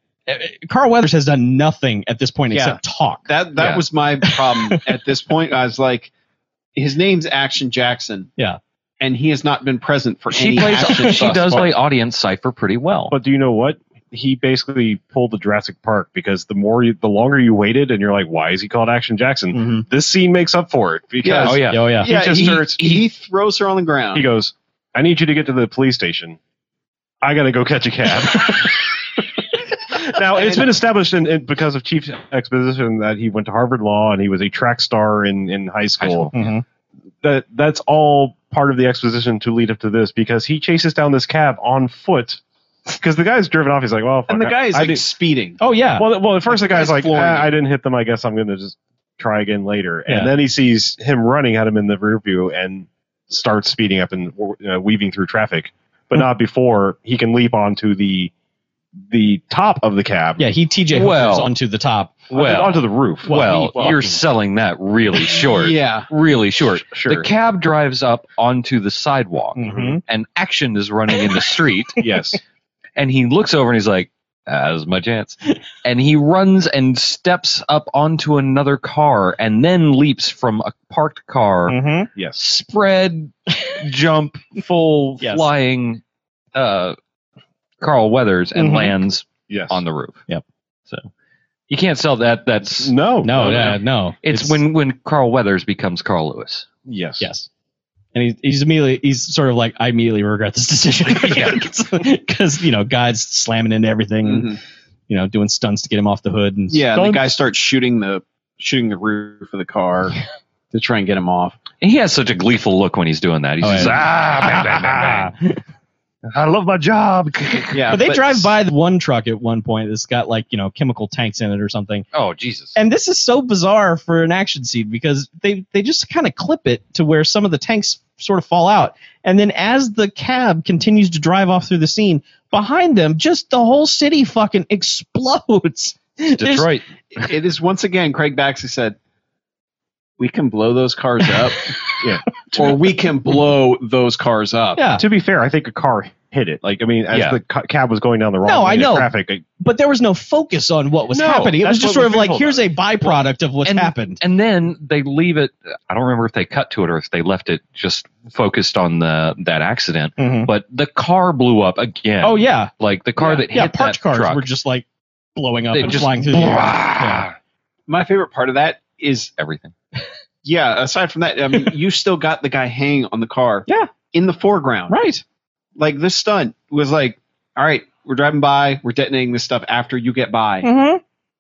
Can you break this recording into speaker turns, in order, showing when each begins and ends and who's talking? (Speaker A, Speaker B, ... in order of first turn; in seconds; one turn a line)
Speaker A: 0.3-3.3
Speaker B: 2.5-6.1
Speaker C: 3.6-3.8
Speaker A: 4.2-4.8
Speaker B: 6.8-8.3
Speaker B: 9.0-11.7
Speaker C: 10.3-13.2
Speaker D: 13.1-23.1
Speaker A: 19.5-19.9
Speaker B: 21.2-24.3
Speaker C: 21.4-21.9
Speaker A: 21.7-22.1
Speaker D: 24.1-26.4
Speaker D: 27.2-29.2
Speaker D: 29.9-36.3
Speaker B: 30.4-30.6
Speaker C: 36.0-36.5
Speaker A: 36.3-36.6
Speaker D: 37.2-45.0
Speaker B: 44.3-45.6
Speaker A: 45.6-46.1
Speaker D: 46.0-58.3
Speaker B: 46.5-47.5
Speaker D: 59.1-60.5
Speaker A: 60.4-62.2
Speaker C: 60.9-61.5
Speaker D: 62.3-64.0
Speaker C: 62.3-72.0
Speaker A: 63.2-64.2
Speaker B: 65.5-66.1
Speaker D: 66.7-67.3
Speaker A: 69.6-70.0
Speaker D: 69.7-70.0
Speaker D: 72.0-72.4
Speaker C: 73.0-81.8
Speaker A: 81.7-82.1
Speaker D: 82.2-82.4
Speaker C: 82.4-86.0
Speaker A: 85.2-85.5
Speaker C: 86.5-87.0
Speaker C: 87.8-90.2
Speaker A: 88.5-88.9
Speaker D: 89.5-89.8
Speaker C: 91.7-96.7
Speaker D: 92.8-93.8
Speaker A: 93.2-94.6
Speaker D: 96.9-97.3
Speaker A: 97.2-97.5
Speaker A: 98.1-104.5
Speaker C: 101.2-101.6
Speaker B: 104.2-104.6
Speaker A: 105.1-106.8
Speaker B: 106.7-110.2
Speaker B: 110.7-111.6
Speaker C: 111.8-115.3
Speaker A: 113.6-115.6
Speaker C: 116.3-117.9
Speaker B: 117.7-118.5
Speaker A: 117.9-122.1
Speaker C: 122.1-122.8
Speaker A: 122.8-136.7
Speaker C: 136.3-136.8
Speaker B: 137.2-139.0
Speaker B: 140.2-141.8
Speaker D: 142.0-142.8
Speaker B: 142.6-144.8
Speaker A: 144.8-145.0
Speaker D: 145.0-149.4
Speaker C: 147.1-147.4
Speaker A: 148.4-154.2
Speaker D: 151.1-153.2
Speaker C: 153.6-164.5
Speaker A: 160.2-160.5
Speaker A: 162.2-162.7
Speaker A: 163.5-164.8
Speaker A: 165.4-167.3
Speaker C: 165.7-167.3
Speaker B: 167.9-169.3
Speaker C: 169.4-169.7
Speaker B: 170.4-175.0
Speaker A: 174.9-175.2
Speaker B: 175.8-180.7
Speaker A: 180.6-181.0